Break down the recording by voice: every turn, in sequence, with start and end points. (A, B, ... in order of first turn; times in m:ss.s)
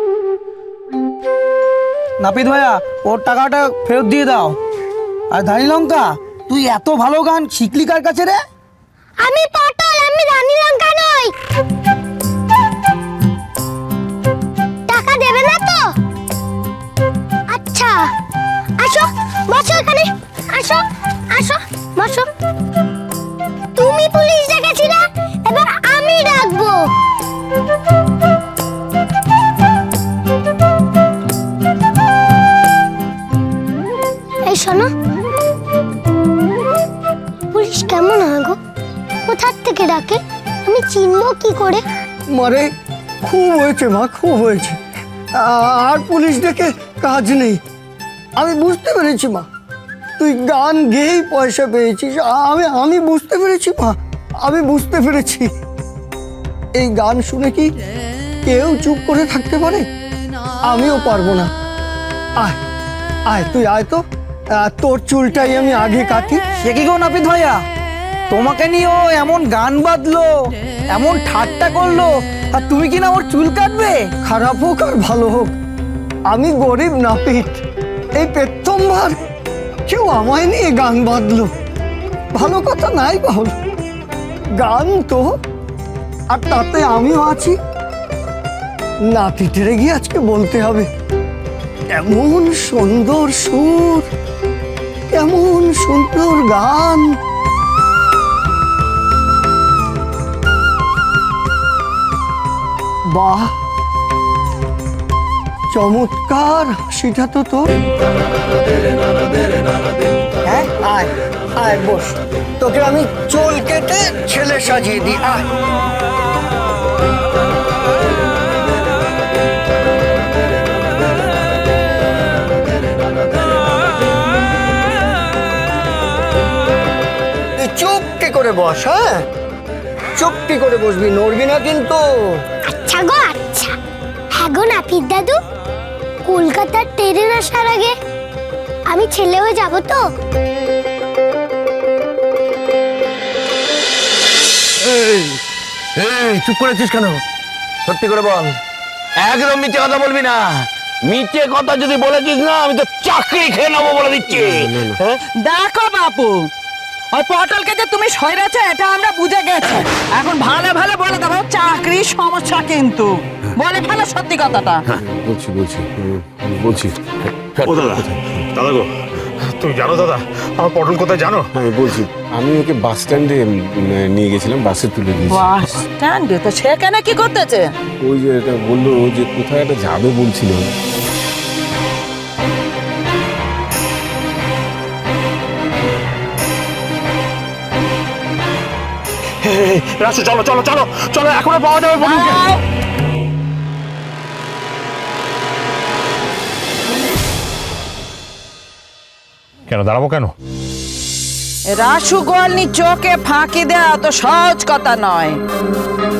0:02.2-0:04.6 A
0:05.3-0:08.4 A
0:09.2-0:11.3 B
0:14.9-0:15.9 B
0:17.5-0:18.1 B
0:18.8-0:22.3 B
0:23.8-0:26.9 B
0:34.5-0:34.9 B
0:37.5-0:38.6 B
0:39.3-0:41.8 B
0:42.3-0:42.7 C
0:43.2-0:44.8 C
0:45.3-0:47.6 C
0:48.4-0:49.5 C
0:50.2-0:55.5 C
0:56.7-0:57.7 C
0:58.4-0:59.9 C
1:00.6-1:01.5 C
1:03.3-1:06.4 C
1:06.6-1:07.6 A
1:08.3-1:14.1 A
1:14.2-1:15.5 C
1:16.3-1:17.6 C
1:18.2-1:19.2 C
1:19.9-1:21.5 C
1:22.3-1:23.5 C
1:24.6-1:25.4 C
1:26.3-1:27.6 C
1:29.1-1:30.9 C
1:31.9-1:34.1 C
1:35.1-1:37.2 C
1:43.1-1:43.5 C
1:45.7-1:47.7 C
1:50.4-1:55.5 C
2:07.6-2:09.2 C
2:10.2-2:12.4 C
2:12.7-2:13.8 B
2:14.3-2:15.4 B
2:16.2-2:17.9 B
2:18.9-2:20.0 B
2:24.8-2:25.4 D
2:26.0-2:27.2 D
2:27.8-2:28.6 D
2:29.2-2:35.2 D
2:34.3-2:35.0 E
2:35.4-2:36.5 F
2:37.1-2:44.8 F
2:44.9-2:48.4 E
2:47.6-2:48.9 G
2:49.4-2:51.5 G
2:51.5-2:55.5 E
2:55.3-2:57.7 F
2:58.0-3:00.7 E
3:09.4-3:12.4 G
3:12.0-3:12.6 F
3:19.7-3:20.3 G
3:21.7-3:25.4 F